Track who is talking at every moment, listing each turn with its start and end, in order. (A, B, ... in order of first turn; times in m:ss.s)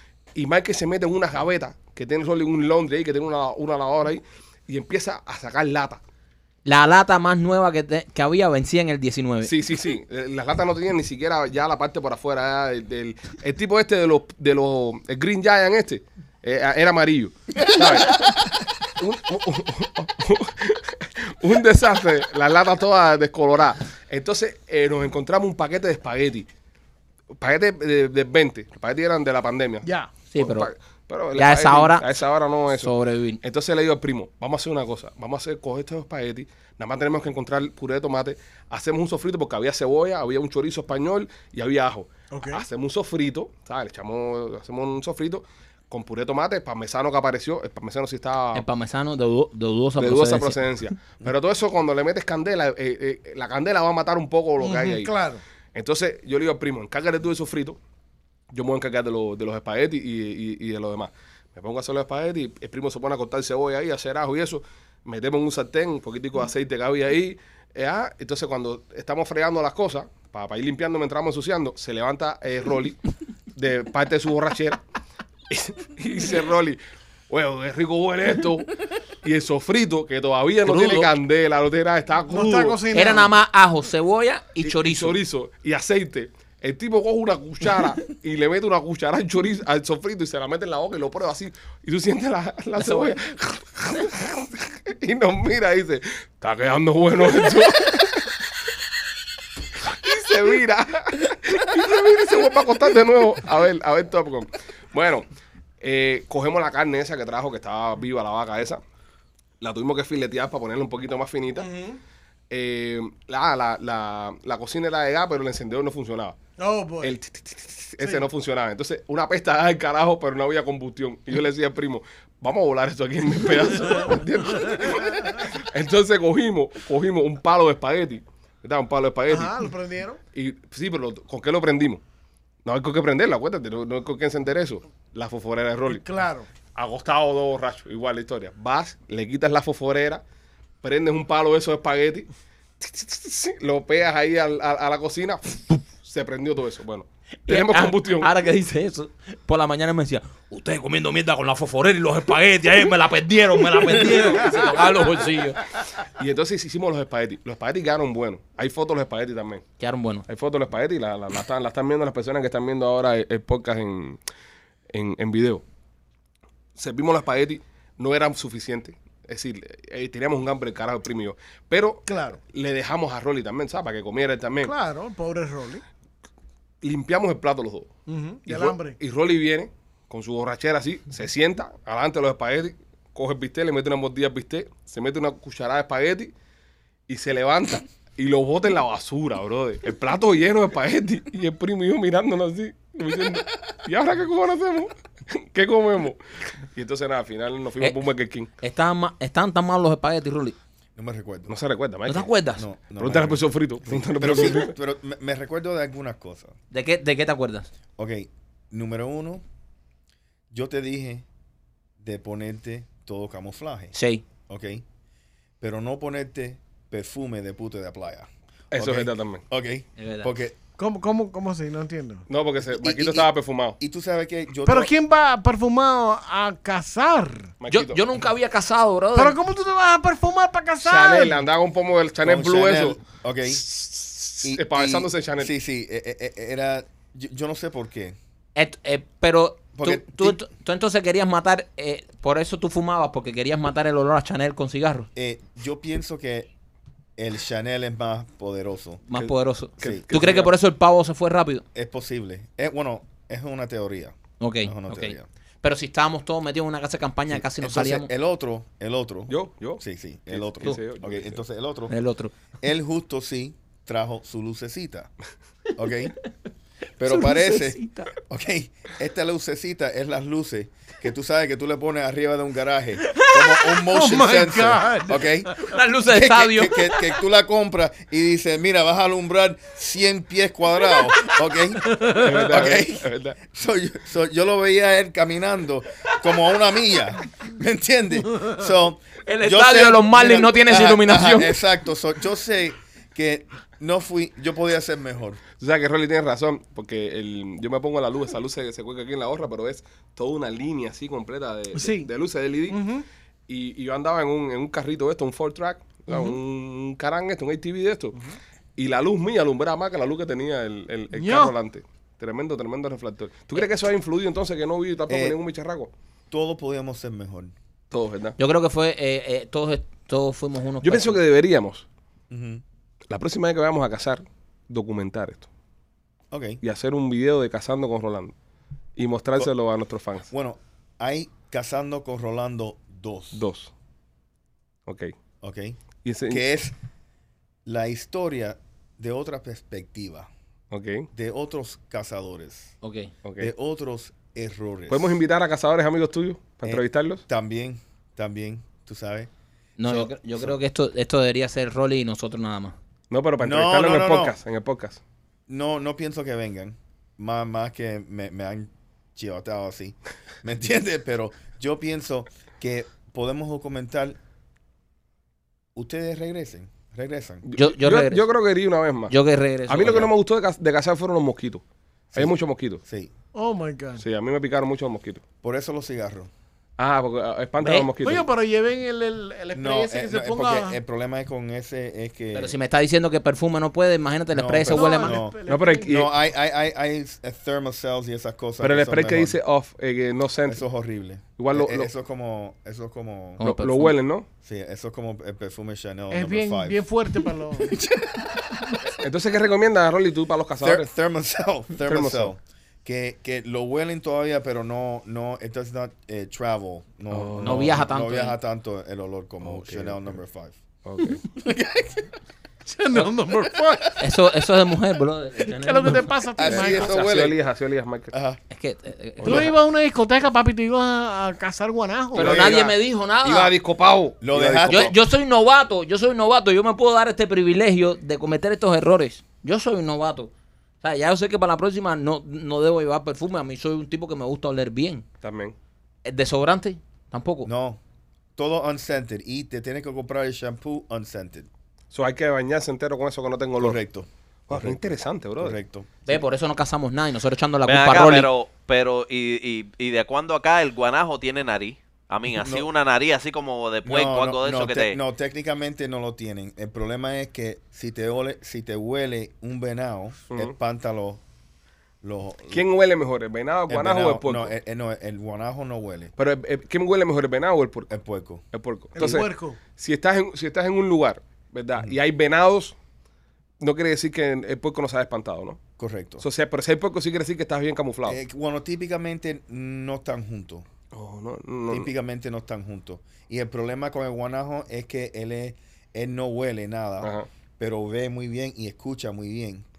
0:00.4-0:06.0 A
0:06.7-0:09.5 B
0:09.4-0:18.4 A
0:17.6-0:18.3 C
0:19.0-0:26.5 A
0:27.4-0:48.6 A
0:29.8-0:30.1 D
0:30.3-0:30.7 B
0:31.4-0:32.0 B
0:32.7-0:33.4 B
0:42.3-0:42.6 D
0:48.5-0:50.6 B
0:50.0-0:55.1 A
0:54.6-0:55.4 D
0:55.8-0:57.8 A
0:58.5-1:13.0 A
1:13.6-1:14.8 A
1:15.5-1:16.8 A
1:17.3-1:22.8 A
1:20.6-1:21.1 B
1:22.3-1:23.3 D
1:22.9-1:25.2 B
1:24.6-1:38.4 A
1:32.8-1:33.2 B
1:39.8-1:45.3 A
1:45.8-1:48.8 A
1:49.6-1:51.7 A
1:51.6-1:52.0 D
1:52.5-1:56.4 A
1:56.6-1:57.2 D
1:57.0-2:09.7 A
1:58.0-1:58.3 D
2:04.6-2:05.4 D
2:09.3-2:10.2 D
2:10.3-2:12.0 A
2:12.6-2:16.0 A
2:15.9-2:16.5 D
2:16.8-2:20.2 A
2:20.8-2:22.3 A
2:22.8-2:28.3 A
2:27.5-2:35.6 B
2:36.1-2:39.6 A
2:39.8-2:40.2 B
2:40.3-2:44.2 A
2:44.9-2:45.6 A
2:46.8-2:54.7 A
2:52.1-2:52.4 D
2:54.6-2:55.8 D
2:56.8-2:57.9 A
2:58.1-2:59.0 D
2:58.5-3:06.3 A
3:07.1-3:16.2 A
3:16.7-3:18.5 A
3:18.6-3:20.6 B
3:21.0-3:21.5 C
3:21.5-3:22.3 A
3:22.1-3:22.6 B
3:22.6-3:26.6 C
3:23.0-3:24.7 A
3:26.7-3:27.7 B
3:28.0-3:29.4 C
3:30.5-3:31.2 C
3:32.0-3:33.9 C
3:33.9-3:34.2 B
3:34.5-3:34.8 C
3:35.6-3:40.6 C
3:38.7-3:39.4 A
3:40.0-3:40.3 B
3:40.8-3:42.2 D
3:42.3-3:43.8 A
3:42.6-3:44.9 C
3:44.6-3:47.5 D
3:47.6-3:48.0 A
3:47.7-3:49.4 B
3:49.2-3:51.4 D
3:50.8-3:55.5 A
3:52.2-3:53.6 C
3:54.4-3:58.2 C
3:58.6-4:05.1 B
3:59.8-4:00.4 C
4:05.2-4:06.5 C
4:07.2-4:09.0 C
4:09.1-4:11.6 B
4:09.8-4:10.1 C
4:09.8-4:10.5 A
4:11.8-4:15.3 C
4:14.4-4:18.1 B
4:17.3-4:21.9 C
4:19.3-4:21.4 A
4:21.9-4:22.3 B
4:22.6-4:25.1 C
4:25.8-4:26.2 C
4:27.0-4:55.4 C
4:27.1-4:28.1 B
4:33.9-4:35.3 D
4:35.6-4:37.0 B
4:42.1-4:43.4 A
4:49.2-4:51.6 B
4:55.6-5:02.8 A
5:01.7-5:02.1 D
5:02.7-5:03.0 D
5:03.5-5:08.2 A
5:06.1-5:06.4 D
5:08.8-5:15.9 A
5:11.1-5:11.5 D
5:15.1-5:15.4 C
5:16.3-5:17.5 C
5:17.9-5:18.4 A
5:18.4-5:21.2 B
5:20.8-5:21.9 A
5:22.3-5:22.6 C
5:23.1-5:25.5 A
5:26.3-5:26.6 C
5:26.6-5:28.3 A
5:29.0-5:30.3 A
5:30.3-5:33.4 C
5:33.3-5:33.7 A
5:34.9-5:35.1 A
5:35.4-5:36.8 C
5:36.0-5:36.4 A
5:37.6-5:40.3 C
5:40.7-5:41.1 A
5:41.1-5:42.8 C
5:42.8-5:43.1 B
5:43.2-5:43.5 A
5:43.4-5:45.2 C
5:44.9-5:47.2 A
5:46.6-5:49.3 C
5:49.8-5:52.8 B
5:49.8-5:50.6 C
5:53.1-5:55.0 A
5:53.4-5:54.4 C
5:55.5-6:04.2 C
6:05.8-6:07.5 C
6:07.4-6:09.2 A
6:07.6-6:08.2 B
6:09.1-6:10.1 B
6:09.7-6:11.6 A
6:12.1-6:13.1 C
6:12.1-6:12.8 A
6:13.3-6:14.0 D
6:14.0-6:15.2 A
6:15.4-6:16.3 C
6:16.8-6:18.2 A
6:17.6-6:17.9 B
6:18.0-6:20.8 D
6:19.5-6:22.6 C
6:22.3-6:25.2 B
6:24.3-6:29.4 C
6:24.7-6:26.0 D
6:25.5-6:26.1 A
6:28.6-6:30.6 A
6:30.5-6:33.4 C
6:31.4-6:31.9 A
6:33.4-6:34.0 B
6:33.4-6:34.3 A
6:34.4-6:39.0 C
6:36.1-6:37.8 D
6:39.0-6:40.9 A
6:40.6-6:50.6 C
6:41.8-6:42.3 A
6:47.1-6:47.8 A
6:47.4-6:48.4 B
6:49.4-6:50.2 A
6:50.8-6:51.2 A
6:51.4-6:52.1 C
6:52.7-6:54.0 D
6:54.0-6:56.1 B
6:55.4-6:57.0 D
6:56.4-6:57.4 C
6:56.4-6:58.1 A
6:58.1-6:58.4 C
6:58.5-6:59.5 B
6:59.2-6:59.5 A
6:59.2-7:02.4 D
7:02.1-7:04.9 A
7:02.2-7:03.5 B
7:02.2-7:02.6 C
7:04.2-7:05.0 C
7:04.7-7:15.0 B
7:15.2-7:15.6 A
7:16.0-7:17.5 B
7:17.4-7:17.8 C
7:18.4-7:21.5 C
7:21.9-7:23.8 A
7:23.6-7:25.9 C
7:24.5-7:25.6 A
7:26.1-7:28.3 B
7:27.7-7:35.0 E
7:32.3-7:32.7 C
7:33.8-7:41.2 C
7:42.0-7:42.7 C
7:42.5-7:44.5 A
7:43.7-7:46.1 C
7:46.2-7:47.9 A
7:47.9-7:48.4 C
7:48.5-7:52.8 A
7:49.0-7:49.6 D
7:53.6-7:55.6 A
7:55.8-7:56.2 C
7:56.2-7:58.2 A
7:58.0-8:00.7 C
8:00.9-8:01.9 A
8:01.7-8:09.7 C
8:07.0-8:07.3 A